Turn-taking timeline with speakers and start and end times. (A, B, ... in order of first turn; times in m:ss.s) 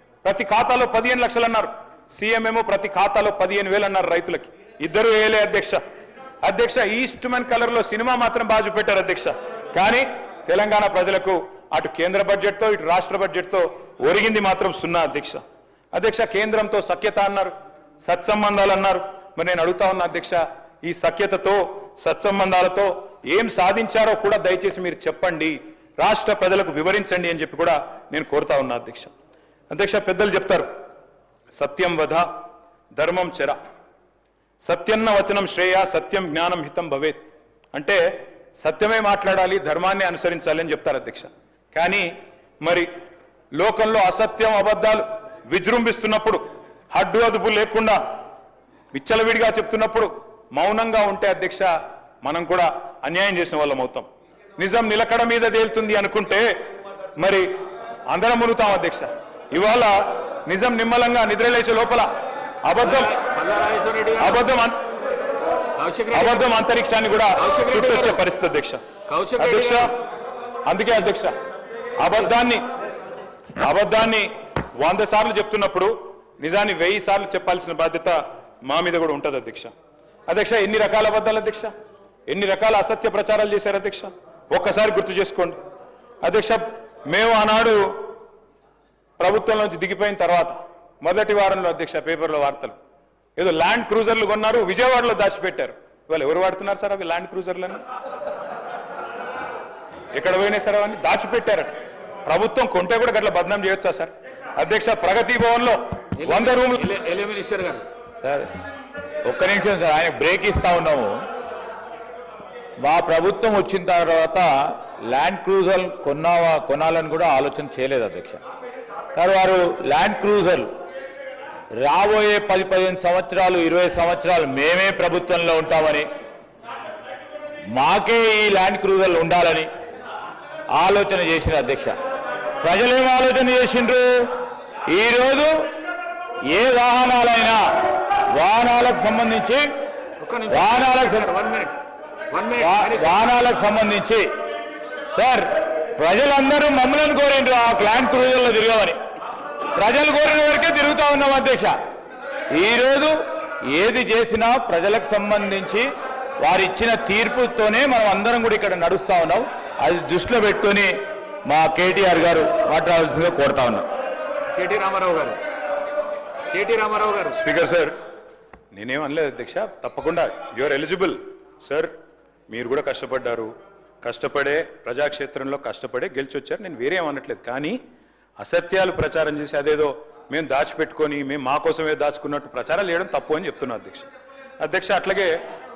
0:00.2-0:05.8 A
0:06.4-0:15.4 A
0:15.9-0:29.1 A
0:29.7-0:30.6 A
0:31.5-0:32.2 A
0:33.0-0:33.6 A
0:34.6-0:37.2 A
0:37.7-0:38.0 A
0:38.6-0:42.1 A
0:42.6-0:42.9 A
0:43.6-0:46.4 A
0:46.9-0:48.0 A
0:48.9-0:51.7 A
0:52.2-0:54.0 A
0:54.6-0:56.4 A
0:57.2-0:57.5 A
0:58.1-1:02.1 A
1:02.6-1:03.2 A
1:02.8-1:04.4 B
1:04.2-1:04.8 A
1:05.8-1:06.5 B
1:06.1-1:08.8 A
1:07.4-1:08.2 B
1:09.1-1:09.9 B
1:09.4-1:09.9 A
1:10.7-1:11.3 A
1:12.0-1:12.6 A
1:13.6-1:19.7 A
1:20.3-1:21.7 A
1:22.3-1:25.6 A
1:26.2-1:27.9 A
1:29.2-1:32.8 A
1:33.4-1:37.8 A
1:40.1-1:41.7 A
1:42.2-1:46.9 A
1:46.2-1:47.8 B
1:48.2-1:48.5 C
1:49.2-1:51.2 C
1:52.8-1:58.4 C
1:59.1-2:00.7 C
2:01.8-2:06.1 C
2:07.7-2:09.7 C
2:10.7-2:12.0 C
2:12.6-2:14.3 C
2:14.9-2:15.7 C
2:16.5-2:19.7 C
2:20.2-2:21.7 B
2:20.5-2:21.3 C
2:22.3-2:23.2 B
2:22.6-2:24.3 C
2:25.1-2:29.0 C
2:29.7-2:31.8 C
2:32.5-2:43.8 C
2:44.5-2:45.4 B
2:46.5-2:47.4 B
2:47.3-2:47.9 A
2:48.7-2:51.9 A
2:52.5-2:53.5 A
2:54.0-2:57.8 A
2:58.4-3:04.1 A
3:04.6-3:05.4 A